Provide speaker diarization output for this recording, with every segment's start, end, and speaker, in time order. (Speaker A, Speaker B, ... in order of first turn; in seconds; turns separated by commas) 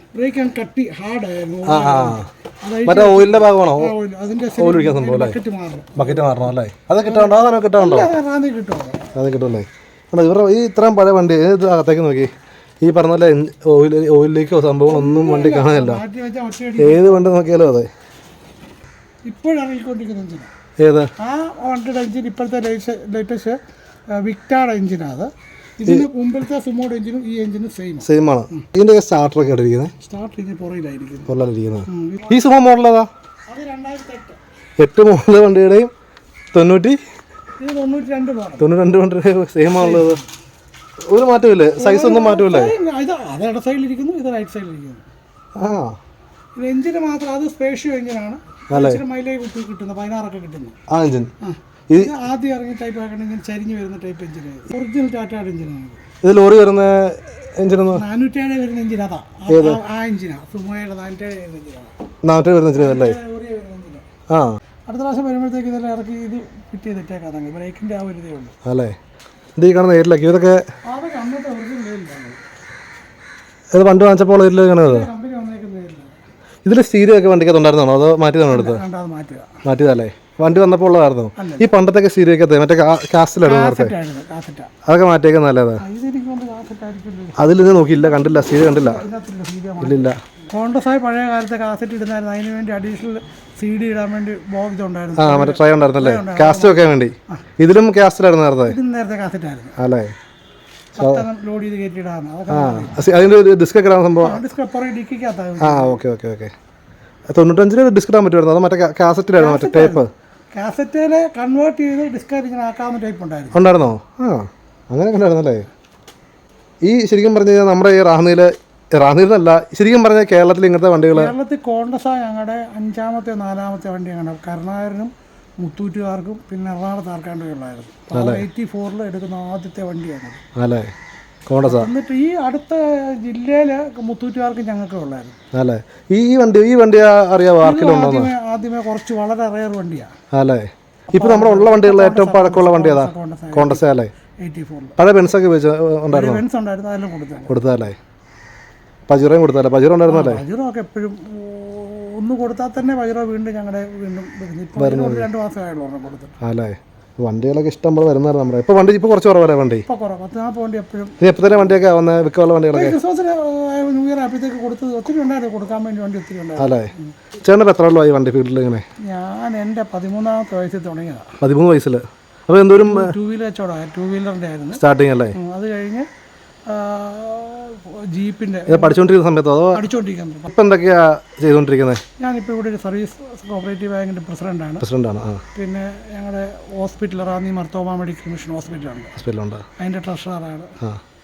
Speaker A: 0.1-6.4, Speaker B: 1.6-2.3, Speaker B: 2.9-3.9, Speaker B: 4.6-5.3, Speaker B: 5.9-8.1, Speaker A: 7.0-9.1, Speaker B: 9.1-12.3, Speaker B: 12.8-16.0, Speaker A: 14.8-17.3, Speaker B: 16.8-17.9, Speaker A: 19.2-20.5, Speaker B: 20.8-21.1, Speaker A: 21.2-23.6, Speaker A: 24.1-28.6, Speaker B: 28.0-29.9, Speaker A: 30.0-31.3, Speaker B: 31.3-33.1, Speaker A: 31.9-32.5, Speaker A: 33.5-34.4, Speaker B: 34.8-35.9, Speaker B: 36.5-37.0, Speaker A: 37.6-38.6, Speaker B: 38.6-40.2, Speaker A: 39.7-40.2, Speaker B: 41.1-42.8, Speaker A: 41.8-45.0, Speaker B: 45.5-45.9, Speaker A: 46.5-50.8, Speaker B: 48.7-49.0, Speaker B: 50.9-51.3, Speaker A: 51.4-56.0, Speaker B: 56.2-58.0, Speaker A: 57.9-61.9, Speaker B: 59.5-59.8, Speaker B: 62.2-63.2, Speaker A: 62.7-64.0, Speaker B: 64.3-64.6, Speaker A: 64.9-68.5, Speaker B: 68.6-69.0, Speaker B: 69.6-70.6, Speaker A: 70.9-72.4, Speaker B: 73.7-75.1, Speaker A: 74.8-76.2, Speaker B: 76.6-78.8, Speaker A: 78.5-79.5, Speaker B: 79.6-83.9, Speaker A: 81.4-81.7, Speaker A: 83.4-84.7, Speaker B: 84.9-85.8, Speaker A: 85.8-97.4, Speaker B: 87.4-89.0, Speaker B: 89.8-90.2, Speaker B: 95.2-98.8, Speaker A: 98.7-99.8, Speaker B: 99.8-100.1, Speaker A: 101.0-103.1, Speaker B: 101.0-101.2, Speaker B: 102.5-104.4, Speaker A: 104.2-106.0, Speaker B: 105.6-106.5, Speaker B: 107.3-110.1, Speaker A: 109.4-110.0, Speaker A: 110.5-113.6, Speaker B: 113.5-115.7, Speaker B: 116.8-121.3, Speaker A: 121.1-130.4, Speaker B: 128.1-128.4, Speaker B: 130.6-130.9, Speaker B: 131.5-131.9, Speaker A: 131.6-135.4, Speaker B: 135.5-138.3, Speaker A: 137.6-140.1, Speaker B: 140.3-144.1, Speaker A: 141.1-143.8, Speaker A: 144.4-144.9, Speaker B: 145.0-146.4, Speaker A: 146.1-147.5, Speaker B: 147.5-148.0, Speaker B: 149.1-150.4, Speaker A: 150.1-156.3, Speaker B: 154.8-155.2, Speaker B: 156.4-159.8, Speaker A: 159.9-161.3, Speaker B: 161.2-162.9, Speaker A: 162.7-167.0, Speaker B: 166.6-166.9, Speaker B: 167.4-168.8, Speaker A: 169.0-171.3, Speaker B: 171.4-173.1, Speaker A: 172.8-174.8, Speaker B: 174.7-175.4, Speaker A: 175.3-176.1, Speaker A: 176.7-179.1, Speaker B: 178.7-179.8, Speaker A: 179.7-180.5, Speaker B: 180.5-182.0, Speaker A: 182.2-184.9, Speaker B: 184.8-185.4, Speaker A: 185.5-189.1, Speaker B: 189.2-189.6, Speaker A: 189.8-190.7